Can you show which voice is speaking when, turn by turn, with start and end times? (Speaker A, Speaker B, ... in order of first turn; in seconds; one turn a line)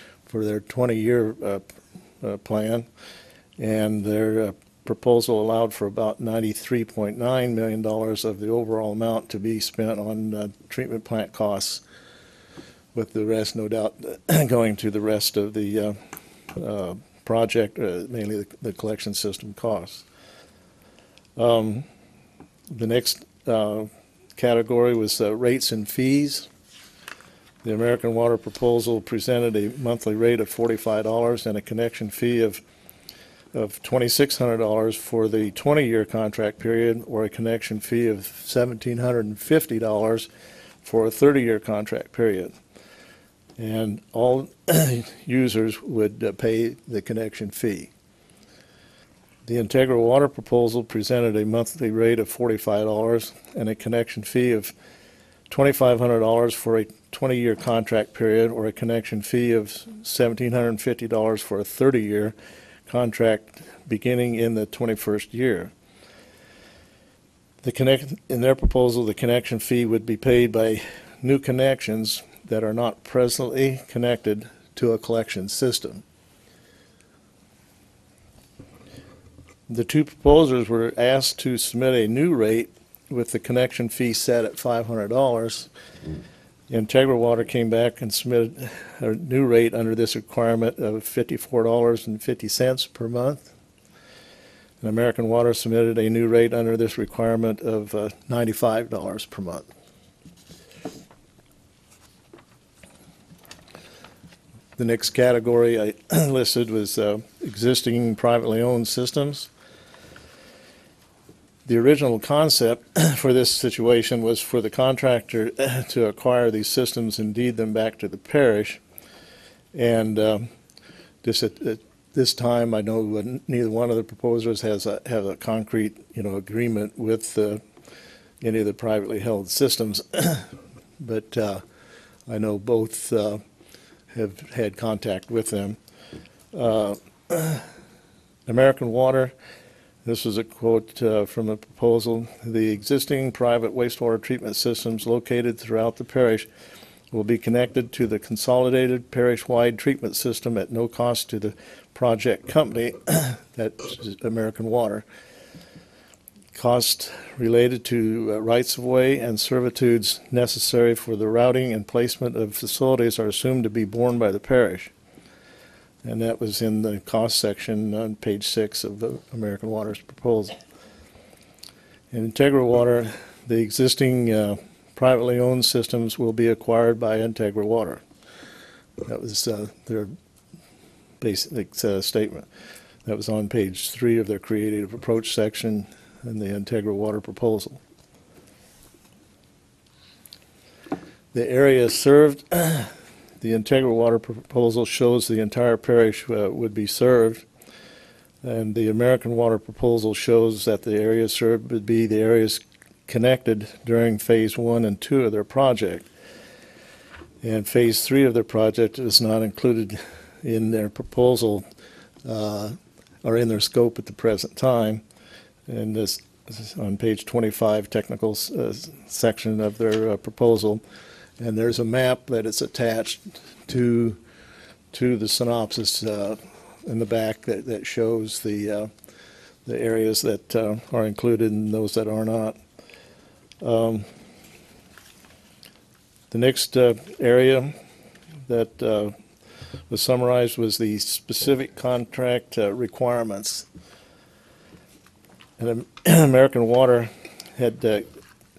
Speaker A: 0.3-1.7
Speaker A: 2.2-2.9
Speaker A: 3.6-11.8
Speaker A: 12.9-20.1
Speaker A: 21.4-21.9
Speaker A: 22.7-26.5
Speaker A: 27.6-32.6
Speaker A: 33.5-40.3
Speaker A: 40.8-42.5
Speaker A: 43.6-47.9
Speaker A: 49.5-54.7
Speaker A: 55.5-62.4
Speaker A: 62.9-65.7
Speaker A: 67.6-76.0
Speaker A: 79.7-85.7
Speaker A: 86.7-93.5
Speaker A: 94.8-99.7
Speaker A: 104.8-109.5
Speaker A: 111.7-118.8
Speaker A: 119.7-120.5
Speaker A: 121.2-127.6
Speaker A: 128.4-130.5
Speaker A: 131.0-131.6
Speaker A: 132.3-133.4
Speaker A: 134.1-135.8
Speaker A: 136.5-137.7
Speaker A: 138.5-139.3
Speaker A: 140.1-146.5
Speaker A: 147.1-155.1
Speaker A: 156.5-164.9
Speaker A: 166.0-170.6
Speaker A: 172.1-178.0
Speaker A: 179.0-180.1
Speaker A: 181.2-182.5
Speaker A: 183.1-187.8
Speaker A: 191.3-197.4
Speaker A: 198.4-206.1
Speaker A: 207.4-211.7
Speaker A: 212.2-215.0
Speaker A: 215.7-220.8
Speaker A: 221.4-224.2
Speaker A: 224.9-228.9
Speaker A: 229.7-232.6
Speaker A: 233.6-234.1
Speaker A: 236.3-237.8
Speaker A: 238.5-239.2
Speaker A: 239.9-243.7
Speaker A: 245.6-248.1